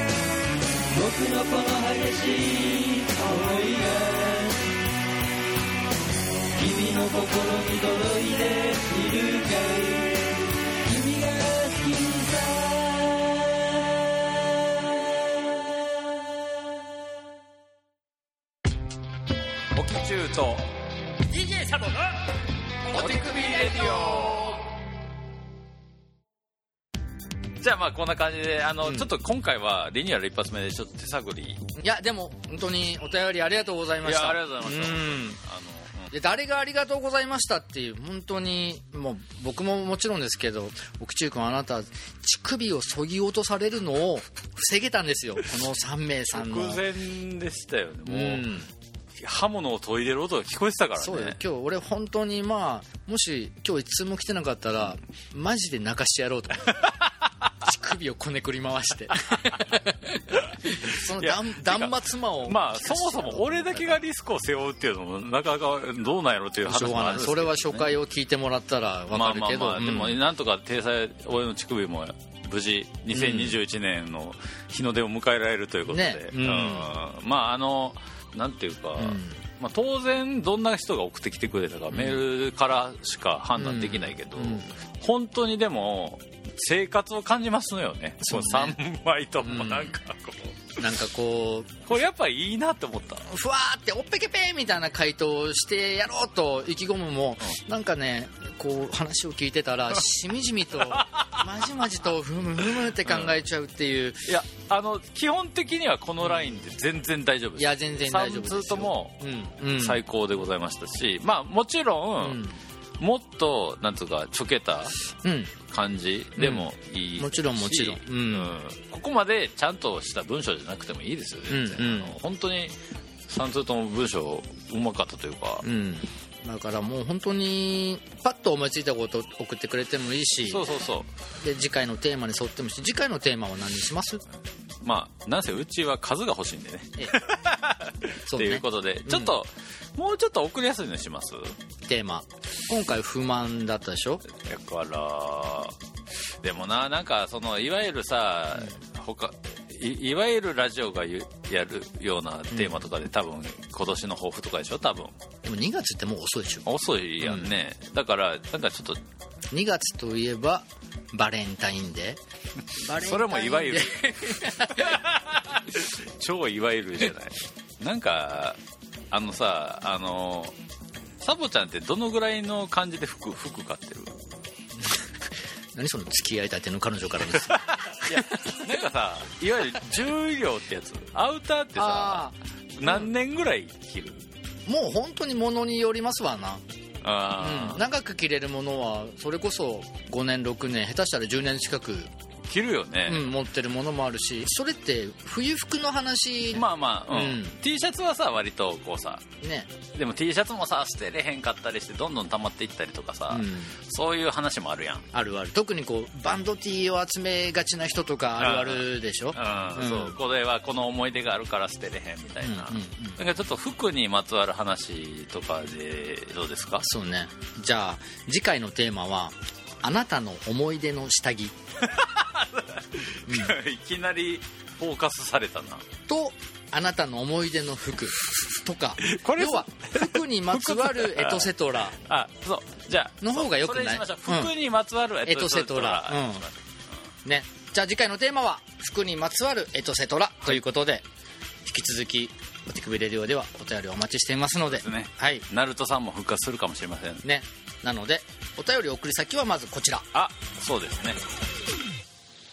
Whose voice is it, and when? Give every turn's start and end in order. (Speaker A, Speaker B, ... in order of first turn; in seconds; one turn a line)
Speaker A: 0.9-4.7
Speaker A: 6.5-14.4
Speaker B: 19.7-20.7
Speaker C: 21.2-22.4
Speaker C: 22.9-24.5
Speaker B: 22.9-24.5
Speaker B: 27.6-31.6
Speaker D: 31.8-35.4
Speaker B: 34.0-36.1
Speaker D: 36.1-46.8
Speaker B: 46.3-48.5
Speaker D: 48.0-48.7
Speaker B: 49.1-51.4
Speaker D: 51.0-56.9
Speaker D: 57.6-64.0
Speaker B: 60.3-67.9
Speaker D: 66.6-70.2
Speaker B: 69.1-90.8
Speaker D: 73.1-73.6
Speaker D: 75.9-76.9
Speaker D: 79.0-79.4
Speaker D: 81.9-82.2
Speaker D: 83.6-84.7
Speaker D: 88.2-88.8
Speaker D: 89.4-90.0
Speaker D: 90.8-91.8
Speaker B: 91.8-93.3
Speaker D: 93.3-104.3
Speaker B: 100.8-101.6
Speaker B: 103.0-103.3
Speaker B: 104.2-109.2
Speaker D: 107.5-110.0
Speaker B: 109.7-112.4
Speaker D: 112.2-112.6
Speaker B: 113.0-115.0
Speaker D: 115.2-115.5
Speaker B: 115.7-122.8
Speaker D: 116.4-118.5
Speaker D: 121.5-122.2
Speaker B: 123.3-125.7
Speaker D: 125.6-130.7
Speaker B: 130.5-131.1
Speaker D: 131.4-134.2
Speaker B: 134.8-141.6
Speaker D: 138.3-139.3
Speaker D: 141.8-144.2
Speaker B: 144.3-145.8
Speaker B: 146.4-155.2
Speaker D: 152.5-152.8
Speaker D: 155.4-156.7
Speaker B: 156.7-159.0
Speaker D: 157.2-157.5
Speaker D: 159.5-162.2
Speaker D: 162.8-165.0
Speaker B: 162.8-168.6
Speaker B: 169.1-170.5
Speaker B: 171.2-174.2
Speaker D: 175.7-178.2
Speaker B: 177.5-184.3
Speaker D: 181.7-183.0
Speaker D: 184.7-186.6
Speaker B: 187.0-187.8
Speaker D: 187.4-192.1
Speaker B: 192.5-193.3
Speaker D: 193.1-197.6
Speaker B: 196.5-199.2
Speaker D: 199.4-199.7
Speaker B: 199.9-205.1
Speaker D: 203.3-203.7
Speaker D: 205.1-210.2
Speaker B: 208.4-216.9
Speaker D: 212.4-213.2
Speaker D: 216.8-221.5
Speaker B: 221.8-225.8
Speaker D: 223.3-223.5
Speaker D: 226.1-232.0
Speaker B: 229.0-237.0
Speaker D: 233.2-234.5
Speaker D: 235.2-236.4
Speaker D: 237.2-241.0
Speaker D: 241.6-245.4
Speaker B: 244.7-247.2
Speaker D: 247.2-250.1
Speaker B: 250.1-251.2